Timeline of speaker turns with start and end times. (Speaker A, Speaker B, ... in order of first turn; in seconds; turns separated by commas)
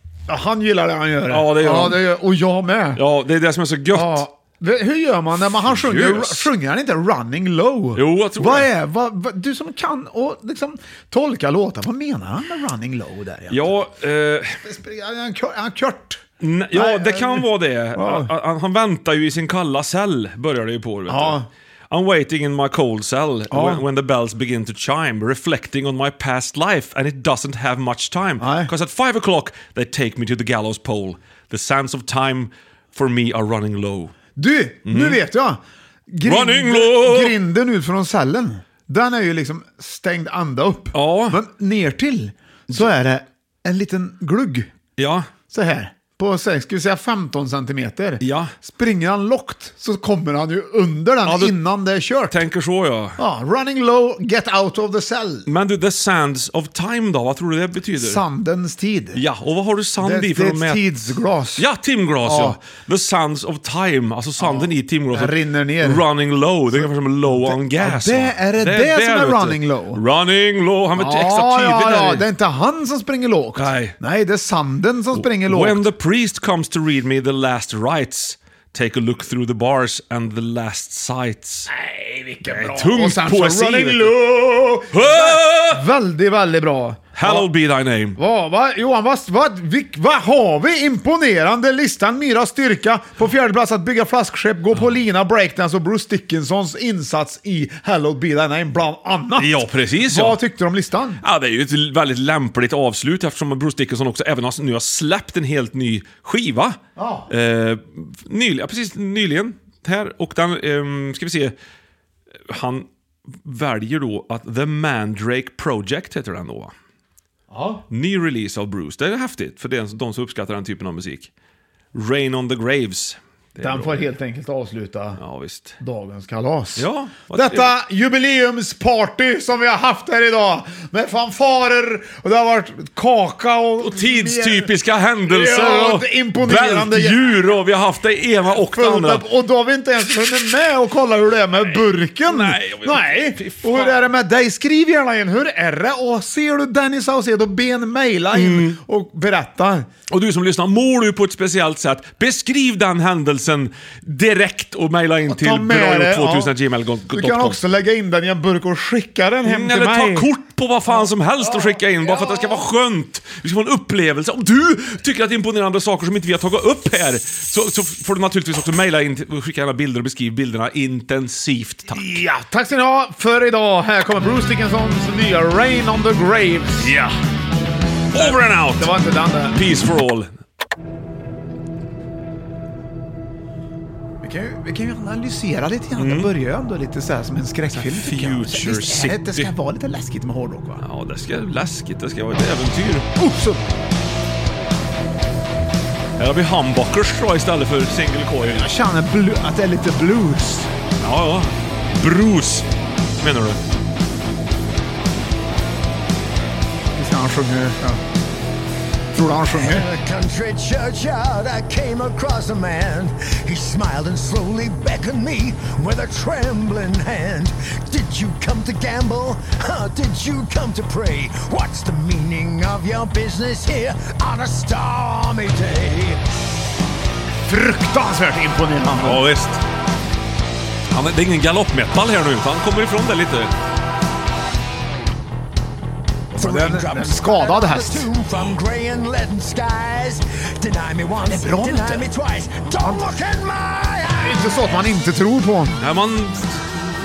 Speaker A: 0.3-3.0, Speaker B: 1.3-2.1, Speaker B: 3.0-4.2, Speaker A: 3.9-13.8, Speaker B: 5.6-6.5, Speaker B: 8.0-8.7, Speaker B: 13.5-14.6, Speaker A: 14.6-18.3, Speaker B: 16.4-34.1, Speaker A: 21.1-21.5, Speaker A: 23.5-23.8, Speaker A: 28.4-28.7, Speaker A: 34.4-44.7, Speaker B: 34.9-35.2, Speaker B: 36.2-37.4, Speaker B: 40.9-41.4, Speaker B: 45.0-45.3, Speaker A: 45.5-52.4, Speaker B: 48.2-48.5, Speaker B: 51.3-51.5, Speaker B: 52.3-53.2, Speaker A: 53.2-55.5, Speaker B: 55.5-58.2, Speaker A: 58.0-59.2, Speaker B: 59.1-60.8, Speaker A: 60.0-61.7, Speaker B: 61.6-72.2, Speaker A: 62.2-62.6, Speaker A: 64.4-66.0, Speaker A: 66.7-70.0, Speaker A: 71.0-75.9, Speaker B: 73.6-73.9, Speaker B: 75.1-81.7, Speaker A: 81.7-87.5, Speaker B: 82.5-84.2, Speaker B: 84.9-85.8, Speaker B: 87.1-88.2, Speaker A: 88.2-101.2, Speaker B: 99.4-100.4, Speaker B: 101.2-106.8, Speaker A: 107.0-107.3, Speaker B: 107.3-111.5, Speaker B: 112.5-112.9, Speaker B: 113.4-116.7, Speaker A: 117.5-117.8, Speaker B: 117.9-121.3, Speaker B: 121.9-124.1, Speaker A: 123.6-125.2, Speaker B: 125.2-125.8, Speaker A: 125.8-134.7, Speaker B: 126.8-127.7, Speaker B: 133.8-139.2, Speaker A: 135.3-137.3, Speaker A: 138.7-149.9, Speaker B: 141.7-144.0, Speaker B: 148.3-148.8, Speaker B: 150.1-157.6, Speaker A: 155.3-156.5, Speaker A: 157.1-160.3, Speaker B: 159.4-172.1, Speaker A: 160.9-162.6, Speaker A: 171.9-177.0, Speaker B: 176.8-177.1, Speaker B: 178.1-179.0, Speaker A: 178.1-179.7, Speaker B: 179.5-180.3, Speaker A: 184.2-190.8, Speaker B: 186.0-186.3, Speaker B: 187.8-189.5, Speaker B: 190.8-193.1, Speaker A: 193.2-193.6, Speaker B: 196.2-198.7, Speaker A: 198.4-200.7, Speaker B: 201.0-202.7, Speaker B: 203.2-203.6, Speaker A: 207.0-208.0, Speaker A: 209.1-209.8, Speaker C: 209.5-226.2, Speaker A: 227.5-229.2, Speaker B: 228.9-229.6, Speaker B: 230.9-233.5, Speaker A: 236.3-238.1, Speaker C: 236.3-244.5, Speaker A: 241.3-242.1, Speaker A: 242.7-243.1, Speaker A: 244.2-245.8, Speaker B: 245.8-246.8